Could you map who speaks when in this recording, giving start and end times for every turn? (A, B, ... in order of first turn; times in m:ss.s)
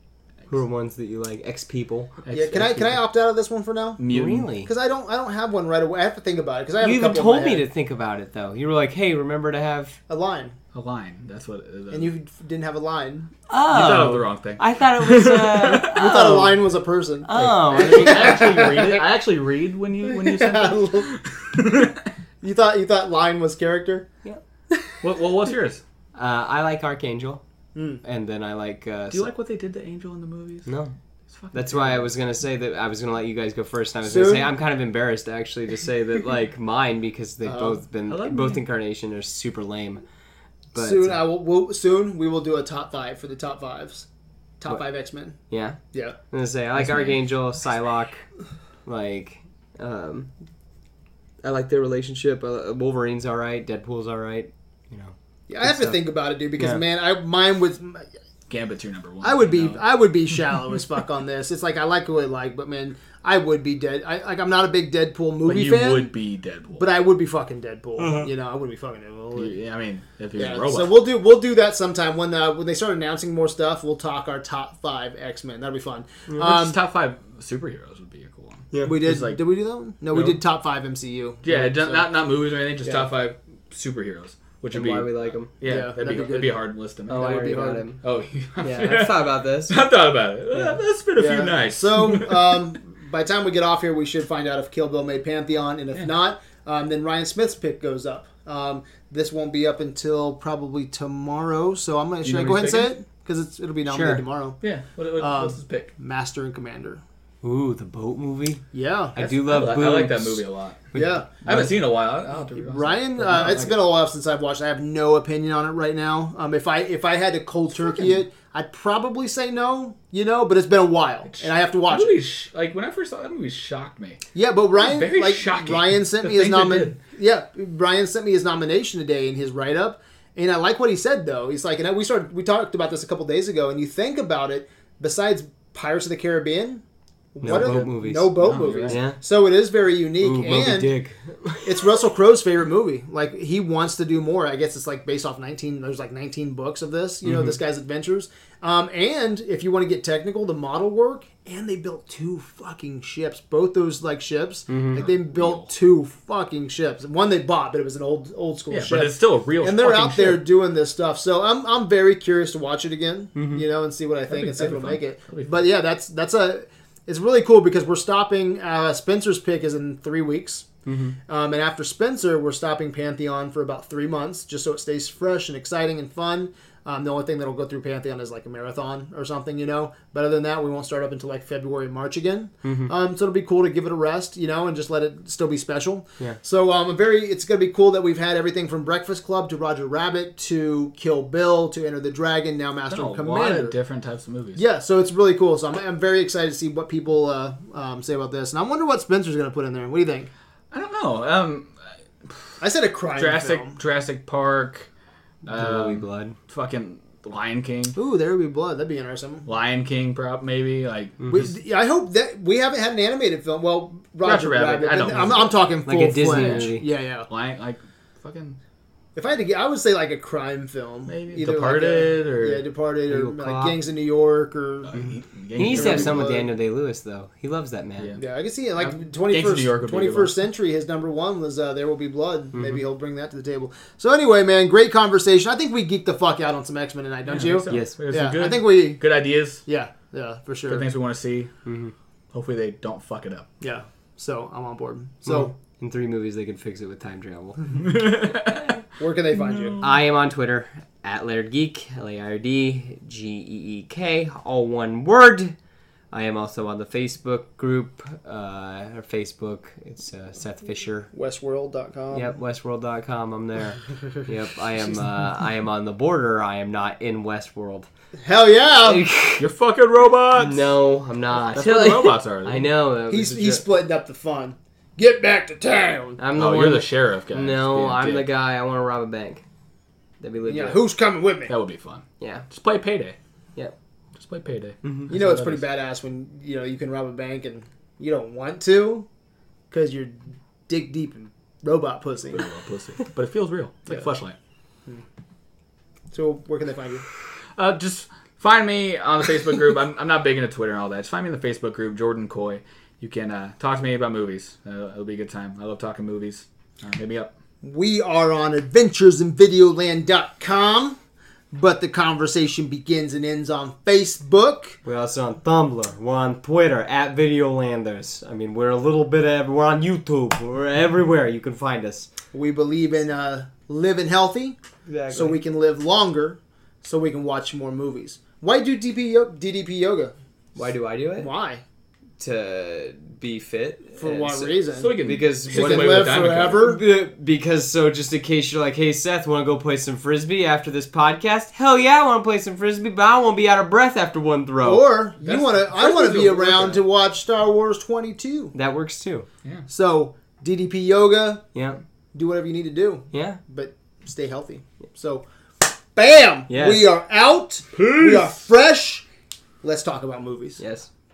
0:00.5-0:02.1 A
0:02.2-0:03.0 B
0:02.3-0:04.1 C
0:04.0-0:04.5 B
0:04.1-0:04.7 A
0:04.7-0:07.6 C
0:06.8-0:10.0 A
0:10.1-0:10.6 C
0:10.7-0:12.1 B
0:11.9-0:13.3 C
0:13.5-0:16.6 A
0:13.7-0:16.0 B
0:15.8-0:19.0 C
0:17.2-0:19.0 A
0:17.4-0:22.1 B
0:20.0-0:21.2 C
0:22.4-0:24.1 C
0:25.0-0:25.8 B
0:26.2-0:27.4 A
0:27.8-0:28.0 C
0:28.0-0:29.3 A
0:29.1-0:30.7 B
0:30.7-0:31.0 A
0:31.3-0:32.0 B
0:31.5-0:40.0 A
0:34.1-0:34.5 C
0:37.5-0:37.8 C
0:38.1-0:38.6 B
0:40.7-0:41.2 A
0:40.8-0:44.1 C
0:44.6-0:45.4 C
0:45.5-0:45.8 A
0:46.3-0:48.3 A
0:46.8-0:47.2 B
0:48.9-0:50.3 A
0:51.4-0:56.0 A
0:55.5-0:58.1 C
0:58.5-0:59.8 B
0:59.2-1:06.1 C
1:05.4-1:06.8 B
1:06.8-1:09.6 C
1:09.4-1:11.0 B
1:10.4-1:16.8 C
1:16.4-1:19.4 B
1:18.7-1:19.0 A
1:18.8-1:22.1 C
1:20.1-1:20.4 B
1:21.4-1:32.6 B
1:24.7-1:25.5 A
1:25.6-1:26.7 C
1:27.1-1:28.0 A
1:27.3-1:27.8 C
1:28.6-1:29.8 A
1:31.2-1:44.6 C
1:42.2-1:42.9 B
1:43.9-1:44.2 A
1:44.6-1:45.9 B
1:45.2-1:47.0 C
1:47.4-1:48.6 A
1:48.7-1:49.2 C
1:49.2-1:50.4 A
1:49.2-1:50.9 B
1:50.9-1:51.6 A
1:50.9-1:51.7 C
1:51.4-1:53.8 B
1:52.5-2:02.2 C
1:57.9-1:58.1 B
2:01.3-2:04.2 B
2:04.4-2:16.8 C
2:04.8-2:07.0 B
2:17.4-2:20.9 C
2:17.4-2:19.2 A
2:17.5-2:19.0 B
2:20.2-2:22.0 A
2:21.6-2:50.7 C
2:27.2-2:27.6 A
2:34.7-2:35.0 A
2:35.0-2:35.7 B
2:38.7-2:40.4 B
2:43.4-2:43.6 A
2:44.3-2:45.7 B
2:50.9-2:51.2 A
2:51.3-3:13.8 C
3:02.6-3:02.9 A
3:12.9-3:14.6 B
3:14.6-3:20.3 C
3:20.7-3:21.7 B
3:22.2-3:22.6 B
3:22.6-3:23.8 C
3:23.2-3:24.9 B
3:25.5-3:28.0 B
3:25.5-3:26.4 A
3:28.0-3:29.5 C
3:29.5-3:31.5 B
3:31.3-3:37.3 C
3:34.2-3:35.6 B
3:35.9-3:36.9 A
3:36.4-3:36.7 B
3:37.3-3:38.6 B
3:39.2-3:46.5 C
3:41.1-3:42.6 B
3:43.1-3:43.8 A
3:44.9-3:46.3 B
3:45.6-3:48.2 A
3:48.2-3:59.0 C
3:48.8-3:50.3 B
3:57.3-3:59.6 B
3:57.7-3:58.0 A
3:59.7-4:00.9 C
4:00.7-4:01.5 B
4:01.6-4:01.9 A
4:02.3-4:03.5 B
4:03.6-4:05.5 C
4:05.3-4:07.6 A
4:07.8-4:08.8 B
4:09.0-4:09.8 C
4:09.3-4:09.9 B
4:09.8-4:15.5 A
4:16.1-4:21.1 A
4:21.1-4:22.3 C
4:22.1-4:27.9 A
4:28.2-4:29.1 C
4:28.8-4:29.5 A
4:29.4-4:30.7 B
4:30.4-4:33.6 A
4:31.5-4:32.7 B
4:33.1-4:36.2 C
4:36.2-4:39.4 A
4:36.4-4:38.3 B
4:40.2-4:40.8 A
4:40.4-4:41.6 C
4:41.5-4:43.2 B
4:42.2-4:42.5 A
4:44.2-4:45.6 B
4:44.8-4:45.1 A
4:45.1-4:49.1 C
4:49.7-4:50.2 C
4:50.7-4:52.4 C
4:52.3-4:54.4 B
4:56.1-4:57.0 C
4:57.6-5:07.3 B
5:07.6-5:11.0 C
5:11.5-5:14.8 C
5:14.8-5:22.1 A
5:22.3-5:24.6 C
5:24.9-5:25.4 A
5:25.1-5:30.1 C
5:30.6-5:31.3 A
5:31.2-5:31.6 C
5:32.2-5:46.8 A
5:34.0-5:35.0 C
5:34.7-5:36.7 B
5:35.5-5:36.8 C
5:44.6-5:48.5 C
5:45.2-5:45.7 B
5:48.5-5:49.3 A
5:49.7-5:51.4 C
5:51.5-5:51.8 A
5:52.1-5:59.0 C
5:53.1-5:53.4 A
5:56.5-5:56.9 A
5:57.8-5:58.3 B
5:59.6-6:00.6 C
6:00.6-6:00.9 A